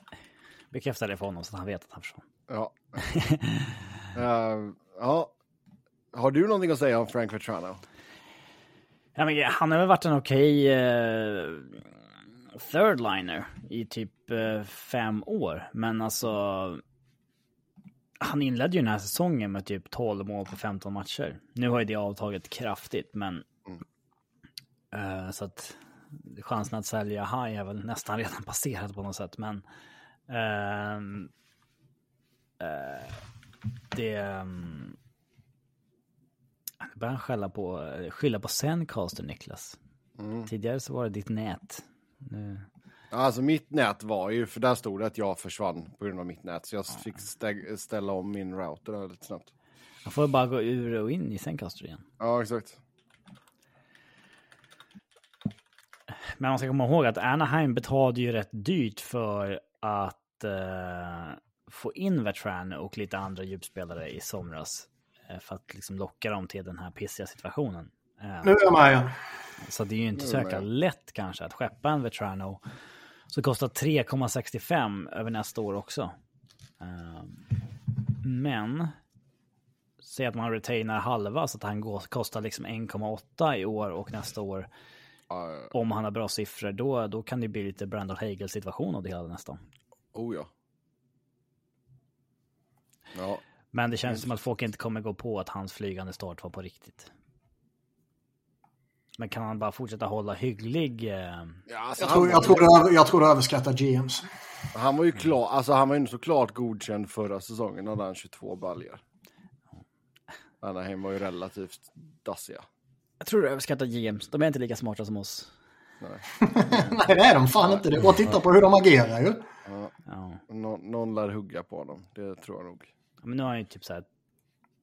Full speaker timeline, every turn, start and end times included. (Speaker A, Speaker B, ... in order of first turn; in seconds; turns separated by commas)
Speaker A: 0.7-2.2, Speaker B: 2.5-3.0, Speaker A: 3.1-3.7, Speaker B: 4.1-5.3, Speaker B: 6.1-7.8, Speaker A: 9.1-11.9, Speaker A: 12.5-16.8, Speaker A: 18.2-23.4, Speaker A: 24.9-29.6, Speaker A: 30.3-31.3, Speaker A: 32.6-33.2, Speaker A: 33.9-35.0, Speaker A: 36.8-39.8, Speaker B: 40.2-40.5, Speaker A: 40.5-42.6, Speaker B: 43.1-49.5, Speaker A: 50.0-52.0, Speaker B: 52.2-52.8, Speaker A: 56.4-68.5, Speaker C: 68.4-69.1, Speaker A: 69.6-72.6, Speaker B: 70.2-70.6, Speaker A: 73.3-76.1, Speaker A: 76.8-77.4, Speaker A: 78.2-78.9, Speaker A: 80.0-84.7, Speaker B: 85.3-85.7, Speaker A: 85.7-89.6, Speaker B: 90.1-90.5, Speaker B: 93.1-93.4, Speaker A: 93.7-97.1, Speaker A: 99.2-101.6, Speaker B: 101.7-102.8, Speaker C: 102.0-104.3, Speaker B: 104.7-109.0, Speaker B: 110.6-112.7, Speaker A: 113.2-115.5, Speaker B: 116.0-117.0, Speaker C: 116.4-119.5, Speaker B: 119.6-119.9, Speaker A: 120.1-120.4, Speaker B: 120.5-122.9, Speaker A: 123.2-124.1